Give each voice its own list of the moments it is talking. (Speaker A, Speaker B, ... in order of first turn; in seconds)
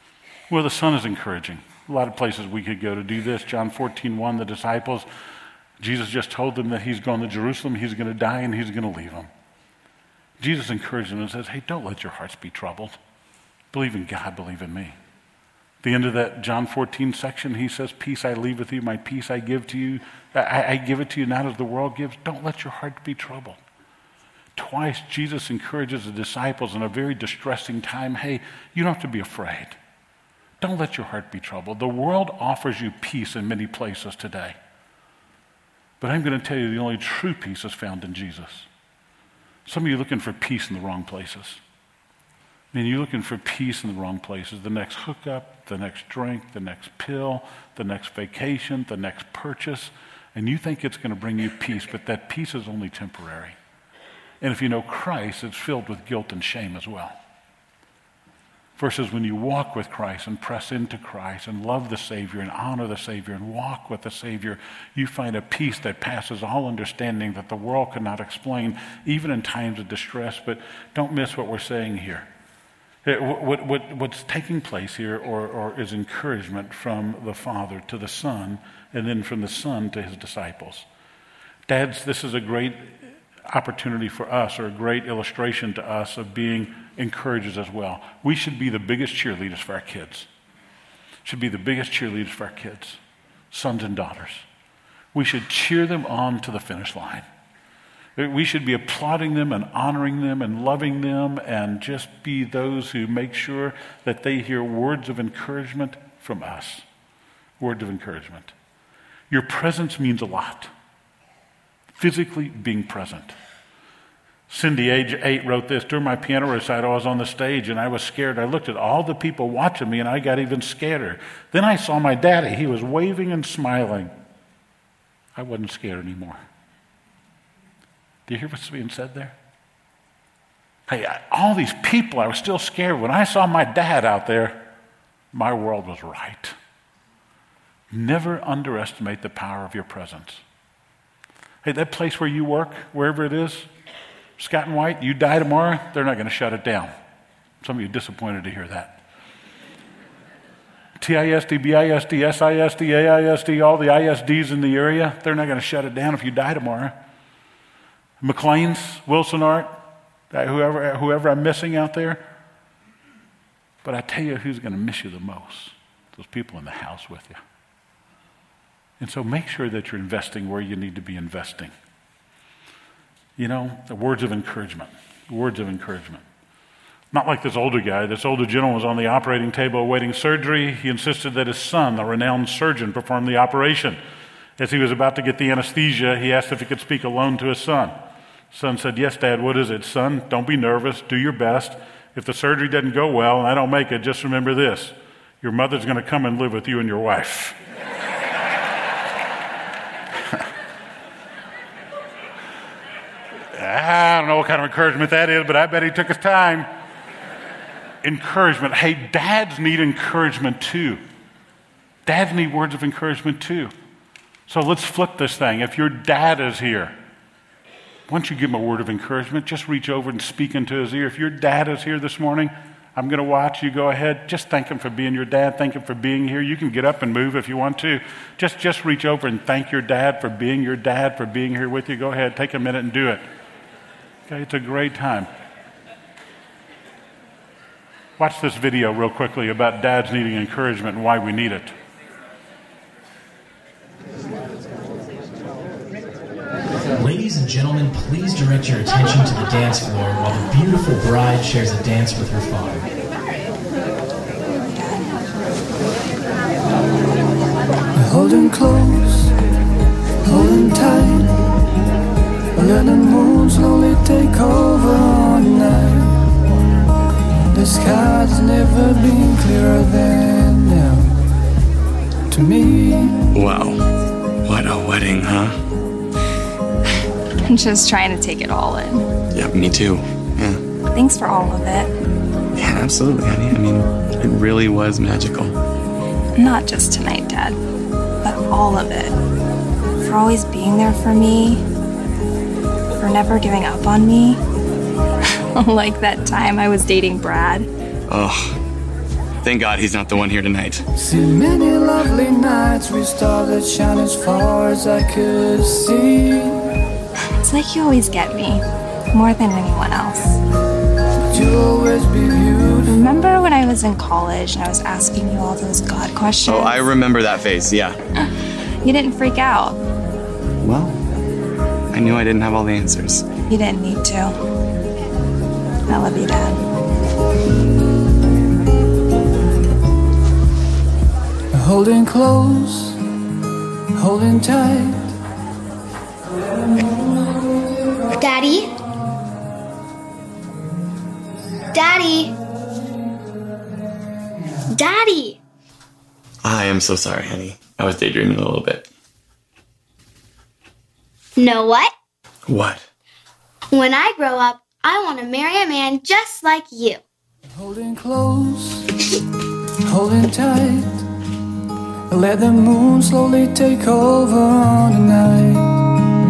Speaker A: 0.5-5.1, 5.8-9.3, 10.4-13.0, 13.7-14.9, 15.8-23.6, 24.6-29.8, 30.6-34.6, 36.0-38.7, 39.7-41.6, 42.7-53.6, 54.4-57.2, 58.8-72.3, 73.0-80.9, 81.7-90.3, 91.2-93.0, 93.5-94.5, 95.1-97.3, 98.2-106.8, 107.6-108.5, 109.3-110.7, 112.0-113.3, 114.5-124.1, 125.4-126.4, 128.3-129.3, 130.9-134.7, 135.3-136.6, 137.9-140.4, 141.6-143.7, 144.4-146.9, 147.6-149.0, 151.0-157.0, 158.2-159.8, 160.3-162.3, 163.8-167.4, 169.0-171.7, 173.4-176.2, 177.1-184.0, 184.6-188.0, 188.5-197.6, 203.5-206.7, 208.0-211.0, 212.1-213.7, 214.5-217.0, 218.1-233.2, 234.3-235.3, 238.2-241.7
Speaker B: 247.0-252.9
Speaker C: 254.7-255.0, 277.4-279.1, 280.9-281.9, 286.4-287.6, 288.2-289.1, 290.0-291.6, 293.0-294.4, 295.5-297.7, 307.4-310.4, 312.9-316.9, 318.8-319.8, 323.5-324.4, 325.9-326.6
Speaker D: 258.0-259.3, 260.2-261.3, 262.6-266.2, 267.5-271.1, 272.3-273.3, 301.0-306.6, 311.3-313.0, 331.5-333.0, 333.9-335.1, 357.6-358.9, 359.9-361.0, 362.1-365.8
Speaker E: 273.3-273.8, 274.4-275.6, 279.3-280.6, 282.6-285.6, 298.1-298.6, 299.4-300.8, 316.4-318.0, 320.6-321.0, 321.9-323.3, 346.4-348.9, 352.5-352.9
Speaker F: 338.1-338.7, 341.7-342.4, 344.7-345.4, 351.4-351.9, 353.7-357.0